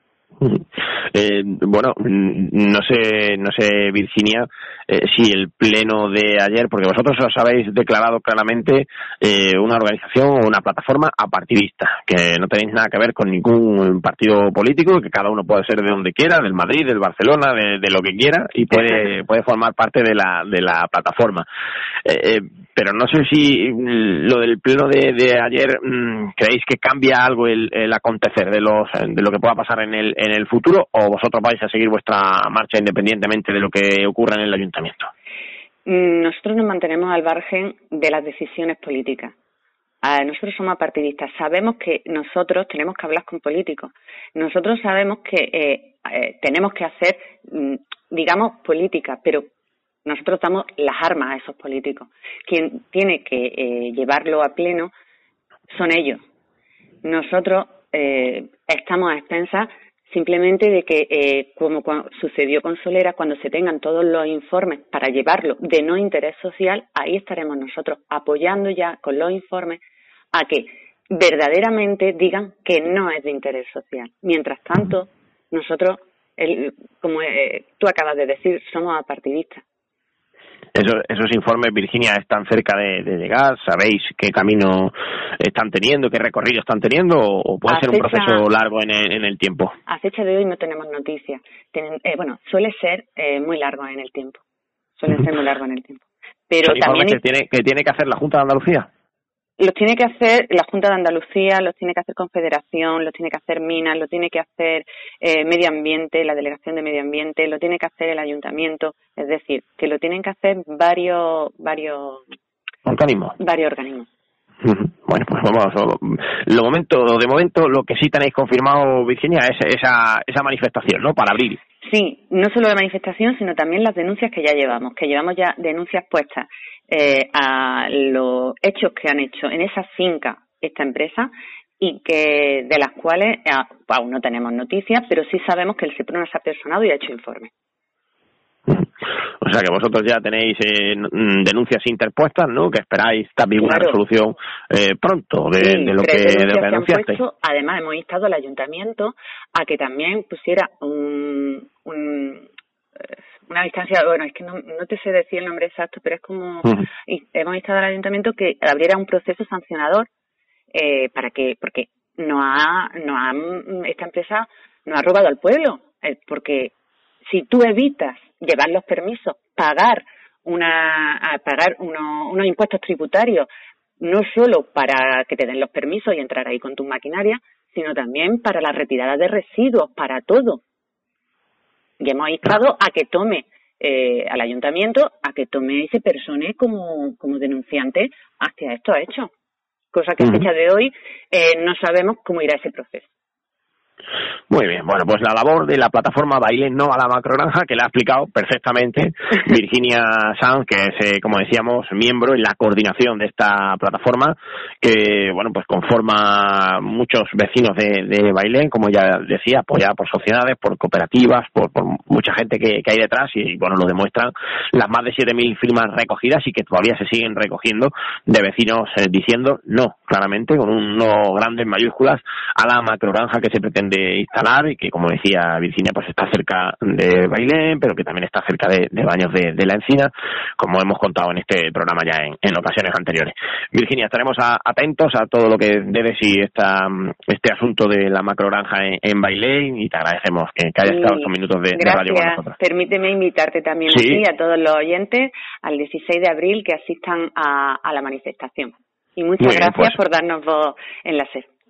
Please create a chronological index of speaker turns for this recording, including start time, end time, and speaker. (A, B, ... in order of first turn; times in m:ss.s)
0:00.4-0:21.4 A
0:22.0-0:35.1 A
0:35.8-0:39.3 B
0:40.0-0:49.5 B
0:50.0-0:54.9 B
0:55.7-0:56.2 B
0:57.0-1:09.8 B
1:10.3-1:19.6 B
1:20.7-1:29.7 A
1:27.6-1:28.4 B
1:29.8-1:34.4 B
1:35.0-1:37.2 B
1:36.6-1:38.9 A
1:39.6-1:52.2 B
1:52.8-1:53.4 A
1:53.4-1:54.1 B
1:54.6-2:01.6 A
2:01.8-2:17.5 B
2:19.4-2:27.2 A
2:23.6-2:24.0 B
2:25.6-2:32.5 B
2:33.4-2:40.1 B
2:40.7-2:46.7 B
2:47.2-2:53.5 B
2:54.0-3:00.6 B
3:02.0-3:09.3 B
3:09.9-3:13.1 B
3:10.2-3:10.4 A
3:14.5-4:02.5 A
4:00.8-4:11.5 B
4:03.9-4:04.2 A
4:09.4-4:09.9 A